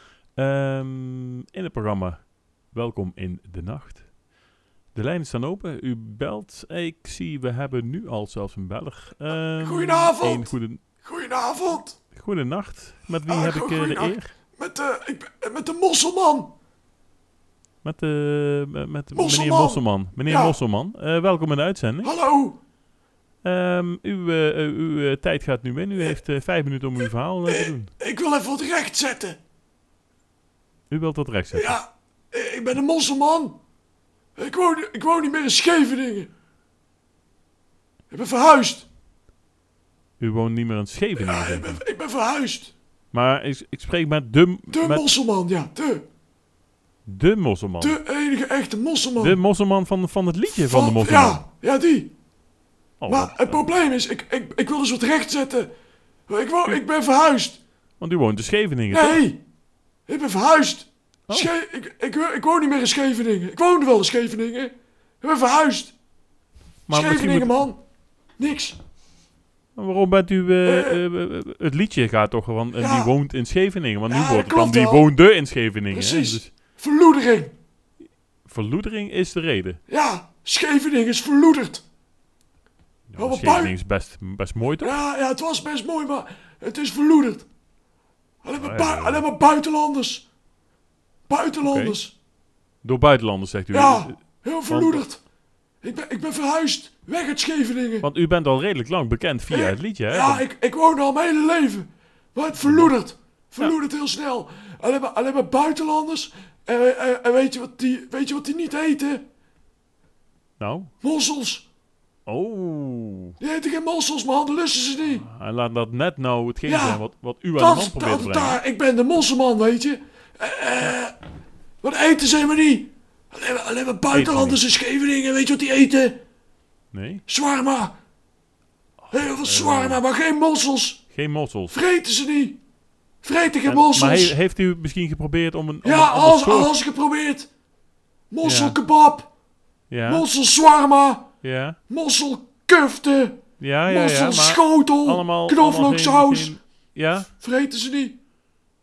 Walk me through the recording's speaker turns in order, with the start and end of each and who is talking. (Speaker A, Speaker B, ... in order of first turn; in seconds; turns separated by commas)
Speaker A: 0.3-4.0, Speaker A: 4.9-10.8, Speaker B: 9.6-12.0, Speaker A: 12.1-14.3, Speaker B: 13.2-16.5, Speaker A: 17.8-22.1, Speaker B: 19.1-20.6, Speaker B: 22.0-22.6, Speaker A: 23.4-27.9, Speaker B: 27.4-29.4, Speaker A: 30.9-31.8, Speaker B: 31.5-33.6, Speaker B: 34.4-36.3, Speaker B: 38.1-38.9, Speaker A: 40.2-41.8, Speaker B: 41.2-42.7, Speaker A: 43.1-45.1, Speaker B: 44.7-46.0, Speaker A: 47.0-48.0, Speaker B: 47.8-49.4, Speaker A: 49.2-51.4, Speaker B: 50.5-52.1, Speaker A: 53.0-53.7, Speaker B: 53.1-55.7, Speaker B: 56.3-57.6, Speaker A: 58.0-59.2, Speaker B: 58.9-59.4, Speaker B: 60.1-65.9, Speaker A: 66.9-67.7, Speaker B: 66.9-67.8, Speaker B: 68.4-68.8, Speaker A: 69.7-76.5, Speaker B: 70.6-71.0, Speaker B: 72.7-73.1, Speaker B: 74.1-75.1, Speaker B: 75.9-77.5, Speaker A: 78.4-79.8, Speaker B: 79.9-81.8, Speaker A: 83.1-85.0, Speaker B: 83.2-83.8, Speaker B: 84.8-87.5, Speaker B: 88.4-90.2, Speaker A: 88.6-89.3, Speaker B: 91.3-92.1, Speaker A: 91.6-92.0, Speaker A: 92.8-95.0, Speaker B: 93.7-95.2, Speaker B: 95.8-98.1, Speaker A: 98.0-100.4, Speaker B: 99.5-109.2, Speaker A: 102.5-102.9, Speaker A: 110.6-110.9, Speaker B: 111.0-111.6, Speaker A: 112.3-113.4, Speaker B: 113.4-115.2, Speaker A: 115.0-118.6, Speaker B: 116.6-117.0, Speaker B: 117.5-121.2, Speaker B: 121.8-126.2, Speaker A: 124.1-124.6, Speaker A: 126.9-127.2, Speaker B: 127.3-128.0, Speaker A: 129.0-130.0, Speaker B: 129.1-131.0, Speaker A: 131.1-131.8, Speaker B: 131.7-132.6, Speaker B: 133.2-134.4, Speaker A: 133.6-136.7, Speaker B: 135.8-137.5, Speaker B: 138.3-139.3, Speaker A: 138.4-138.8, Speaker A: 139.9-140.2, Speaker B: 140.0-141.3, Speaker A: 141.4-141.8, Speaker B: 141.9-146.6, Speaker A: 143.6-147.3, Speaker B: 147.3-148.2